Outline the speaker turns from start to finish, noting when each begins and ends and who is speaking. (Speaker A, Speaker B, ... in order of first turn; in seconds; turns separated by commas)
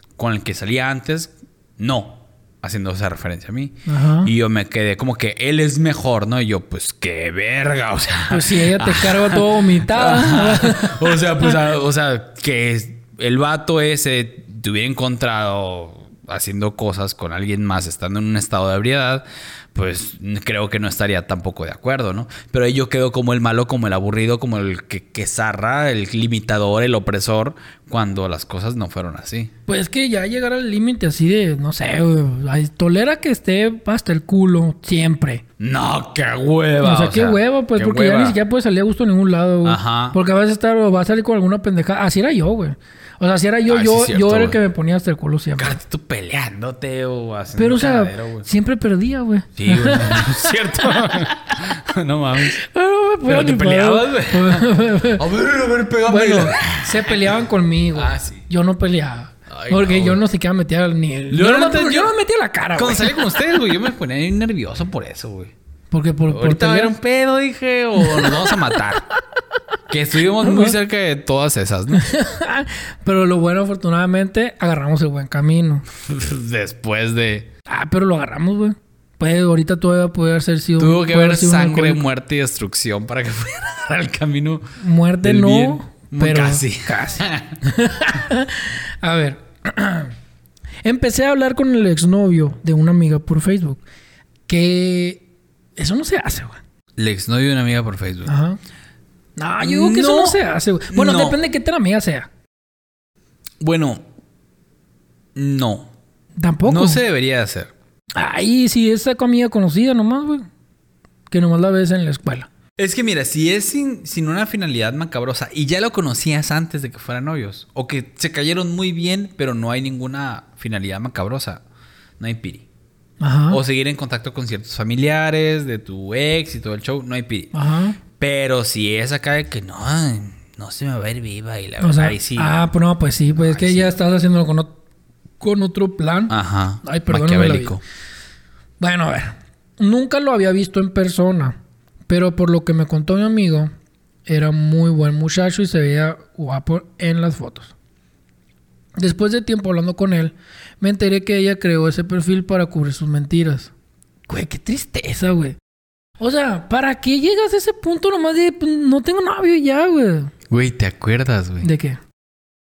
Speaker A: 0.2-29.5, Speaker B: 3.9-4.3, Speaker B: 8.3-11.6, Speaker B: 29.7-35.4, Speaker A: 35.6-38.4, Speaker B: 36.8-45.8, Speaker A: 39.6-40.2, Speaker A: 43.7-44.6, Speaker A: 45.6-48.5, Speaker B: 47.5-51.3, Speaker A: 49.6-52.6, Speaker B: 52.4-55.2, Speaker A: 53.2-57.3, Speaker B: 56.0-63.3, Speaker A: 57.9-58.4, Speaker A: 59.5-60.2, Speaker A: 61.3-62.1, Speaker A: 62.8-65.5, Speaker B: 65.9-66.9, Speaker A: 66.3-69.0, Speaker B: 68.0-68.8, Speaker A: 69.9-72.1, Speaker B: 70.4-70.8, Speaker B: 71.9-75.8, Speaker A: 76.0-77.5, Speaker B: 77.7-82.0, Speaker A: 80.8-84.6, Speaker B: 84.8-90.1, Speaker A: 85.2-87.5, Speaker B: 90.8-93.8, Speaker B: 94.5-95.2, Speaker B: 95.8-96.6, Speaker A: 97.0-98.3, Speaker B: 98.2-98.6, Speaker B: 99.4-102.3, Speaker A: 99.6-101.4, Speaker A: 103.6-104.0, Speaker A: 105.3-105.9, Speaker B: 106.4-107.0, Speaker A: 106.6-107.7, Speaker B: 108.2-110.4, Speaker B: 111.3-112.5, Speaker A: 112.8-121.6, Speaker A: 122.2-122.7, Speaker B: 123.2-123.6, Speaker A: 123.5-127.5, Speaker B: 127.5-128.0, Speaker A: 128.1-132.6, Speaker B: 131.8-134.7, Speaker A: 133.3-133.9, Speaker B: 135.4-137.8, Speaker A: 136.3-137.8, Speaker B: 138.8-141.6, Speaker B: 142.1-143.7, Speaker B: 144.2-147.7, Speaker B: 149.0-153.7, Speaker B: 154.3-155.6, Speaker B: 156.2-160.3, Speaker A: 160.5-161.7, Speaker B: 161.6-162.0